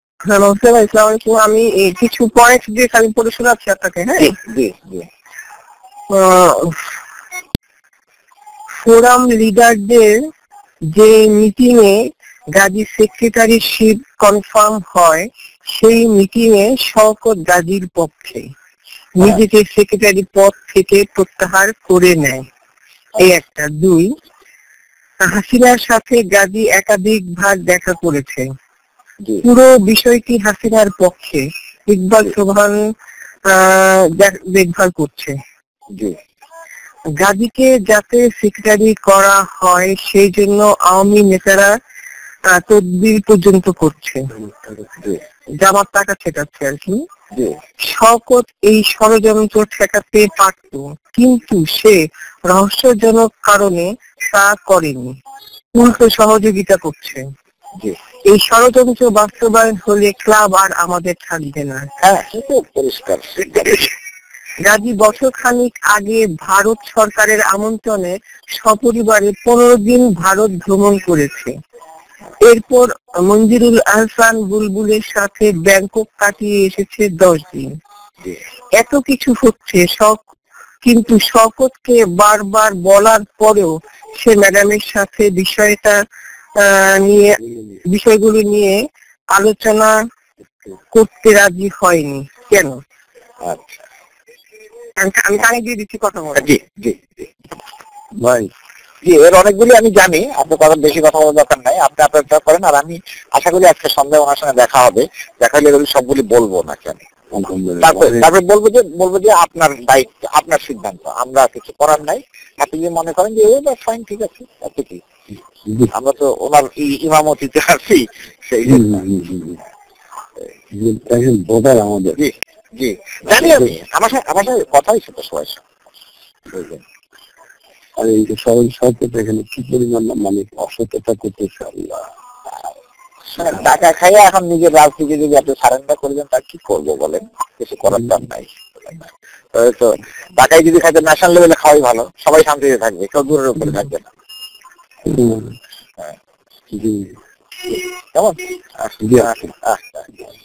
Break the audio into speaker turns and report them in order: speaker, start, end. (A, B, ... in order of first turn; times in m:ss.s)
0:00.3-0:04.3 A
0:04.2-0:05.1 B
0:06.1-0:06.9 A
0:08.8-0:10.2 A
0:10.9-0:12.0 A
0:12.5-0:18.4 A
0:19.2-0:22.4 A
0:23.2-0:24.1 A
0:25.2-0:28.4 A
0:29.4-0:32.8 A
0:33.4-0:35.3 A
0:37.2-0:41.7 A
0:42.5-0:44.3 A
0:45.6-0:47.0 A
0:47.8-0:55.1 A
0:55.7-0:57.2 A
0:58.3-1:01.9 A
1:02.0-1:03.9 B
1:04.6-1:11.5 A
1:12.4-1:17.7 A
1:18.8-1:20.2 A
1:20.8-1:26.0 A
1:26.6-1:28.8 A
1:29.3-1:29.9 A
1:30.9-1:32.8 A
1:33.4-1:33.8 B
1:35.0-1:36.5 A
1:36.4-1:37.2 B
1:38.2-1:38.5 C
1:39.0-1:47.0 B
1:47.3-1:48.3 C
1:47.8-1:55.0 B
1:55.7-1:55.9 C
1:55.9-1:59.0 B
1:58.6-1:59.6 C
2:00.7-2:02.2 C
2:02.2-2:05.6 B
2:03.3-2:03.7 C
2:06.5-2:06.8 B
2:08.0-2:12.0 C
2:13.3-2:24.1 B
2:25.0-2:25.5 C
2:26.7-2:27.1 C
2:28.1-2:30.0 B
2:29.0-2:29.4 C